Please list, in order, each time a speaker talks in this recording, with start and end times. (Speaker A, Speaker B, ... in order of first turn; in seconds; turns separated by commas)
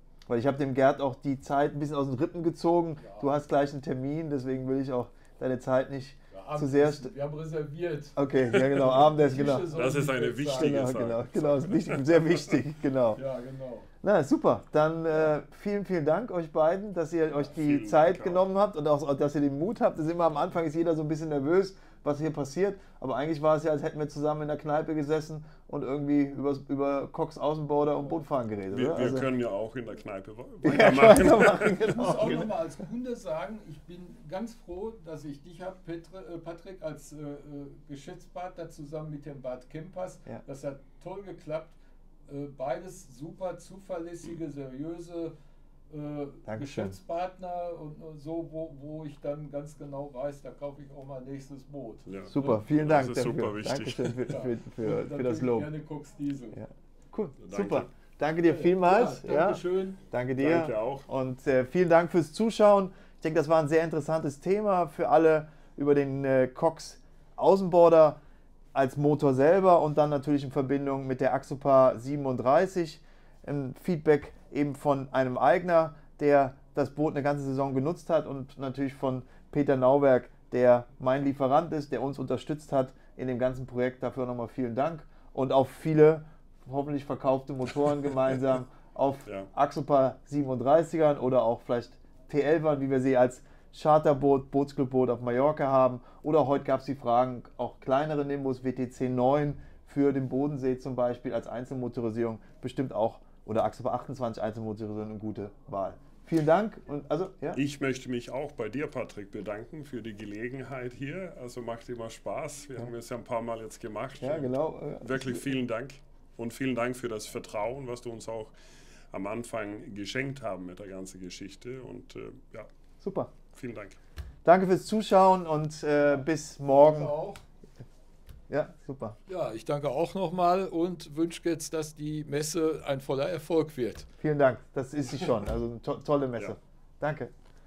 Speaker A: 0.3-7.1, Speaker B: 3.0-3.3, Speaker B: 6.3-10.9, Speaker A: 8.2-9.7, Speaker C: 9.7-12.6, Speaker A: 10.5-13.2, Speaker B: 13.1-13.9, Speaker A: 14.0-29.3, Speaker C: 17.4-18.4, Speaker C: 28.7-31.9, Speaker A: 30.6-32.5, Speaker B: 31.8-45.3, Speaker B: 45.9-52.6, Speaker A: 46.5-47.0, Speaker C: 52.1-54.3, Speaker A: 52.3-55.7, Speaker B: 54.2-56.6, Speaker A: 56.5-68.2, Speaker C: 57.4-57.9, Speaker B: 58.4-60.0, Speaker C: 60.4-61.1, Speaker A: 68.7-107.6, Speaker C: 107.5-118.5, Speaker A: 114.2-115.5, Speaker C: 119.1-122.7, Speaker A: 123.0-123.3, Speaker C: 123.5-124.0, Speaker A: 124.5-127.2, Speaker B: 126.2-127.4, Speaker A: 128.5-129.2, Speaker B: 129.3-134.1, Speaker A: 134.2-137.3